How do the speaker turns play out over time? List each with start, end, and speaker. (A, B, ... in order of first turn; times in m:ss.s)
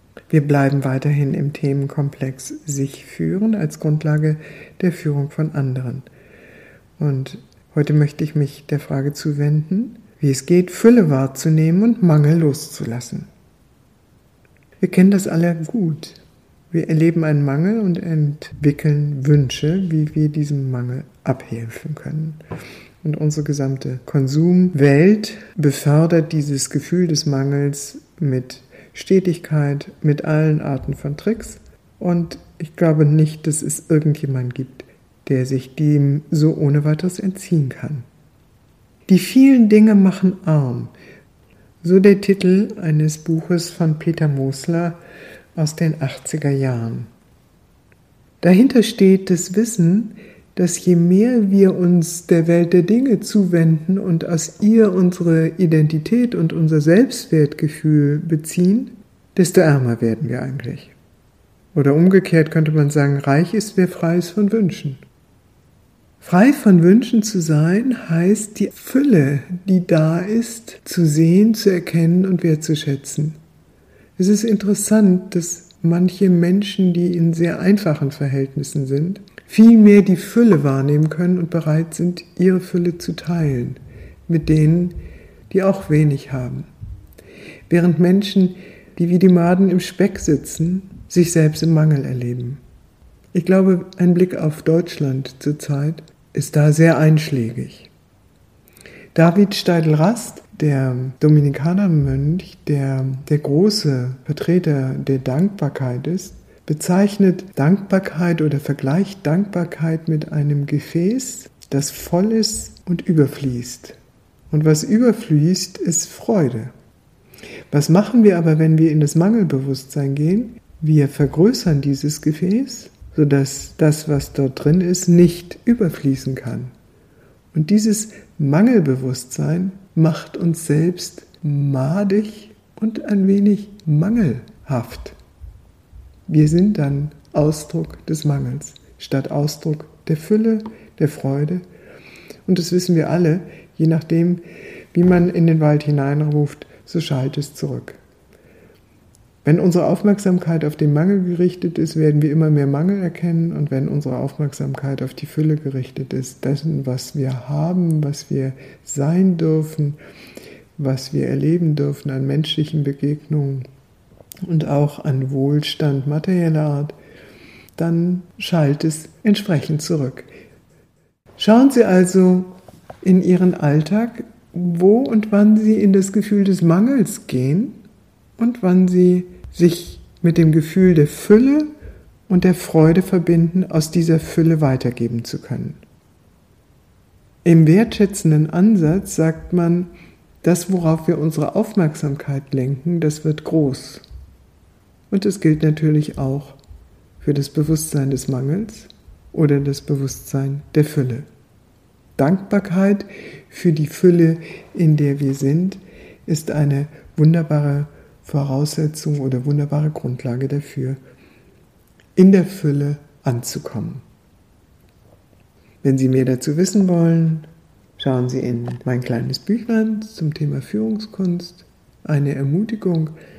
0:00.3-0:06.1 A
0:07.0-0:13.3 A
0:14.8-0:16.2 A
0:16.7-0:22.4 A
0:23.0-0:38.0 A
0:39.1-0:40.9 A
0:41.8-0:45.0 A
0:45.6-0:47.1 A
0:48.4-1:01.0 A
1:01.7-1:05.0 A
1:06.2-1:13.4 A
1:14.2-1:25.0 A
1:25.5-1:26.7 A
1:27.7-1:32.6 A
1:33.3-1:37.9 A
1:39.1-1:54.0 A
1:54.5-1:56.7 A
1:57.7-2:06.7 A
2:07.5-2:15.2 A
2:16.3-2:21.6 A
2:22.5-2:24.4 A
2:24.9-2:28.0 A
2:29.4-2:40.0 A
2:40.8-2:43.7 A
2:44.4-2:47.0 A
2:47.8-2:50.3 A
2:51.4-2:57.8 A
2:58.4-3:01.7 A
3:02.3-3:05.8 A
3:07.4-3:09.9 A
3:10.4-3:14.0 A
3:15.1-3:16.6 A
3:17.2-3:21.3 A
3:22.2-3:31.0 A
3:32.2-3:34.0 A
3:35.8-3:37.5 A
3:38.0-3:43.1 A